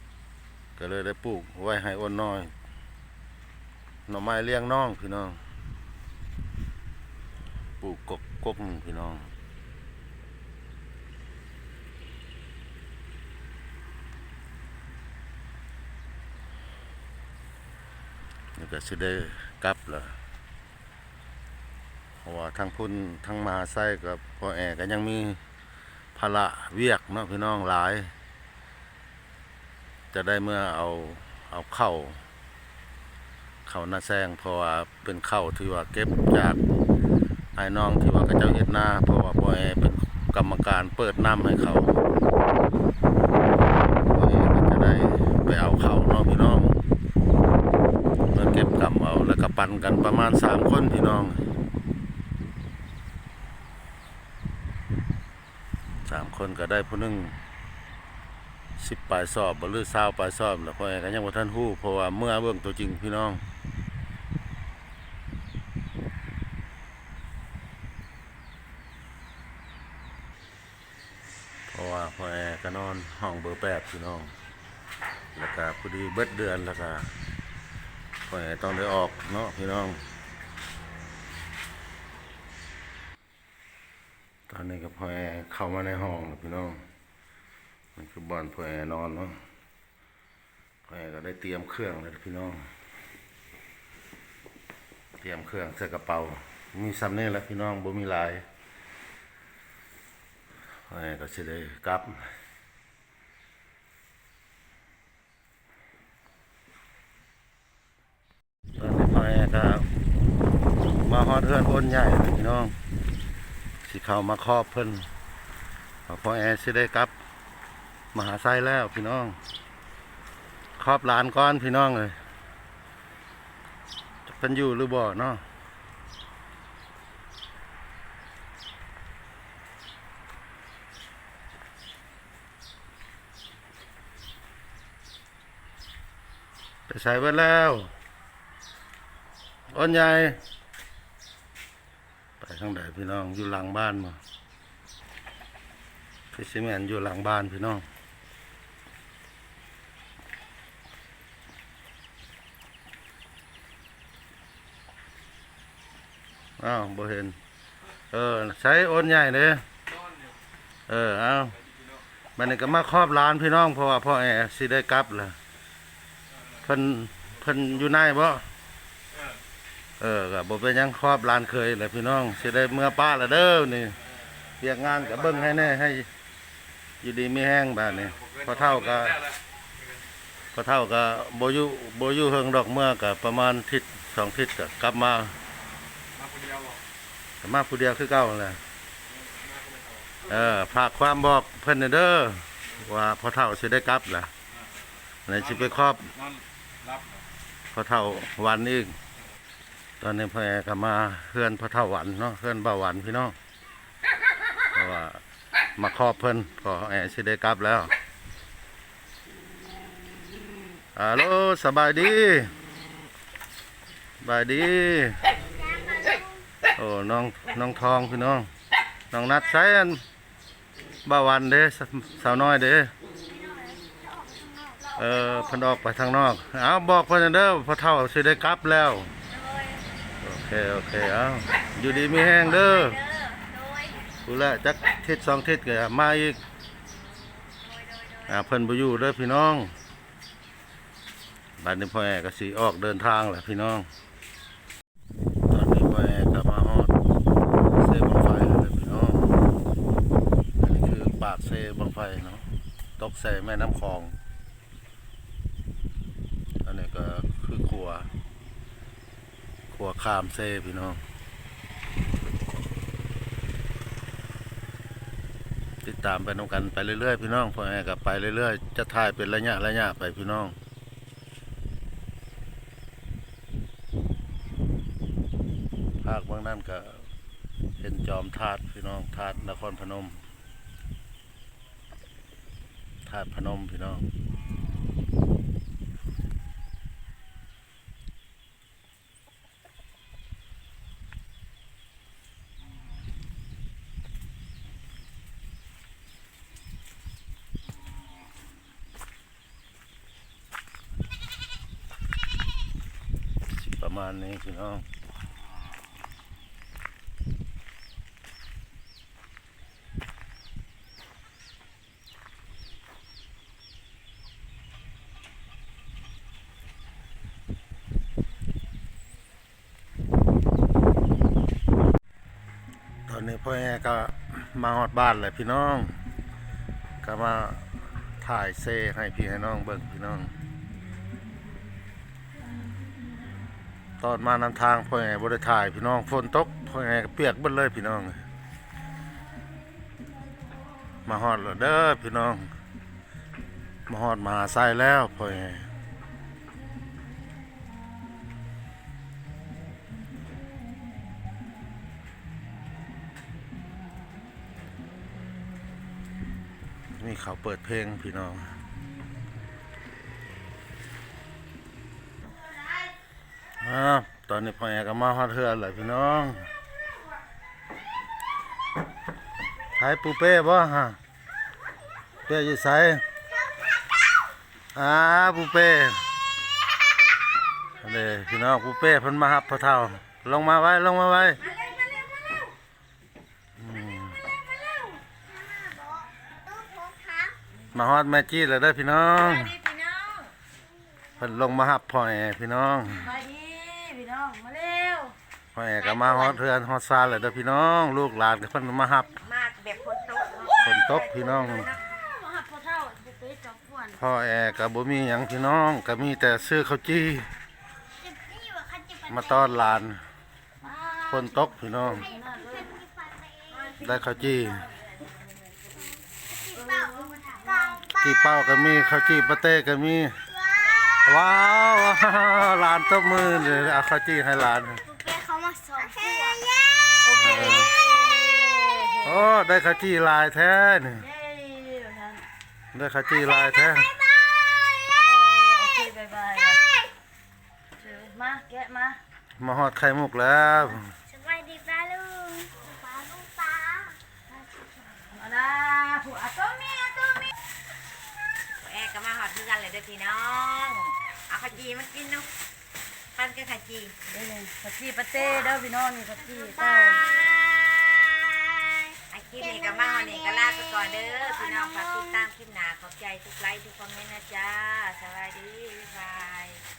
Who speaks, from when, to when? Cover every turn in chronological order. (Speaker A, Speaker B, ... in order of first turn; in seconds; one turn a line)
Speaker A: 0.8-2.5
Speaker A: 4.1-5.4
Speaker A: 7.8-9.3
Speaker A: 18.6-20.2
Speaker A: 22.2-25.4
Speaker A: 26.1-28.1
Speaker A: 30.1-32.2
Speaker A: 33.6-36.6
Speaker A: 37.5-42.0
Speaker A: 44.0-46.8
Speaker A: 48.3-51.5
Speaker A: 56.0-57.4
Speaker A: 58.8-63.4
Speaker A: 71.7-74.3
Speaker A: 75.3-77.1
Speaker A: 78.3-80.0
Speaker A: 84.5-86.8
Speaker A: 88.0-89.4
Speaker A: 90.8-92.7
Speaker A: 95.2-98.4
Speaker A: 100.9-102.2
Speaker A: 108.8-109.9
Speaker A: 111.0-112.7
Speaker A: 113.8-115.1
Speaker A: 116.1-117.1
Speaker A: 118.1-119.4
Speaker A: 120.8-122.2
Speaker A: 124.2-125.4
Speaker A: 136.9-137.9
Speaker A: 139.7-140.4
Speaker A: 142.4-144.2
Speaker A: 146.3-147.8
Speaker A: 156.6-157.4
Speaker A: 158.1-159.6
Speaker A: 160.9-161.6
Speaker B: 161.7-161.9
Speaker A: 162.3-165.3
Speaker A: 166.6-168.4
Speaker A: 170.0-174.0
Speaker A: 174.6-176.1
Speaker A: 177.0-179.3
Speaker A: 180.5-185.3
Speaker B: 186.2-186.8
Speaker A: 187.4-188.6
Speaker B: 189.2-190.0
Speaker A: 190.3-194.3
Speaker A: 195.3-196.1
Speaker B: 196.2-197.2
Speaker A: 197.7-198.9
Speaker A: 200.0-203.3
Speaker A: 204.7-205.2
Speaker A: 205.8-207.9
Speaker A: 210.9-212.5
Speaker A: 214.2-215.2
Speaker C: 215.6-216.4
Speaker A: 216.7-218.5
Speaker A: 219.1-220.0
Speaker A: 221.0-222.9
Speaker C: 223.3-225.6
Speaker A: 224.9-229.1
Speaker C: 229.3-229.8
Speaker A: 230.2-233.0
Speaker D: 231.8-233.9
Speaker C: 233.3-234.1
Speaker A: 234.2-236.4
Speaker D: 237.6-238.2
Speaker A: 238.3-239.7
Speaker A: 241.6-243.9
Speaker A: 245.5-246.9
Speaker A: 247.7-249.4
Speaker A: 250.6-252.4
Speaker A: 253.0-254.1
Speaker A: 256.6-258.1
Speaker A: 259.7-261.0
Speaker A: 265.8-270.6
Speaker A: 276.0-277.0
Speaker A: 277.8-280.2
Speaker A: 283.0-284.1
Speaker A: 303.4-304.9
Speaker A: 323.1-326.0
Speaker A: 327.0-330.3
Speaker A: 334.0-338.2
Speaker A: 341.1-342.5
Speaker A: 343.9-345.7
Speaker A: 357.0-358.6
Speaker A: 363.6-366.5
Speaker A: 369.8-371.0
Speaker A: 372.2-373.0
Speaker A: 374.7-376.0
Speaker A: 377.8-381.4
Speaker C: 381.4-382.5
Speaker A: 383.6-384.2
Speaker C: 384.6-387.4
Speaker A: 387.7-389.5
Speaker D: 389.1-390.3
Speaker A: 391.2-393.1
Speaker E: 393.0-395.1
Speaker A: 395.5-399.2
Speaker D: 399.2-401.8
Speaker A: 400.6-401.7
Speaker E: 401.9-404.0
Speaker A: 403.9-407.3
Speaker C: 408.0-409.5
Speaker A: 409.1-410.0
Speaker E: 410.6-412.7
Speaker A: 411.1-412.1
Speaker C: 412.0-413.9
Speaker A: 413.8-414.7
Speaker C: 416.3-418.0
Speaker E: 416.6-417.8
Speaker A: 418.0-420.2
Speaker C: 420.3-421.7
Speaker A: 421.0-424.9
Speaker C: 424.9-426.9
Speaker E: 427.0-429.3
Speaker A: 427.1-427.8
Speaker A: 429.0-431.1
Speaker E: 431.0-432.2
Speaker A: 432.7-434.0
Speaker E: 435.0-436.6
Speaker E: 437.8-439.0
Speaker A: 439.4-440.9
Speaker C: 441.1-444.0
Speaker E: 445.1-447.2
Speaker D: 448.6-452.3
Speaker D: 453.1-453.9
Speaker E: 454.1-457.0
Speaker C: 456.4-462.3
Speaker D: 459.1-466.6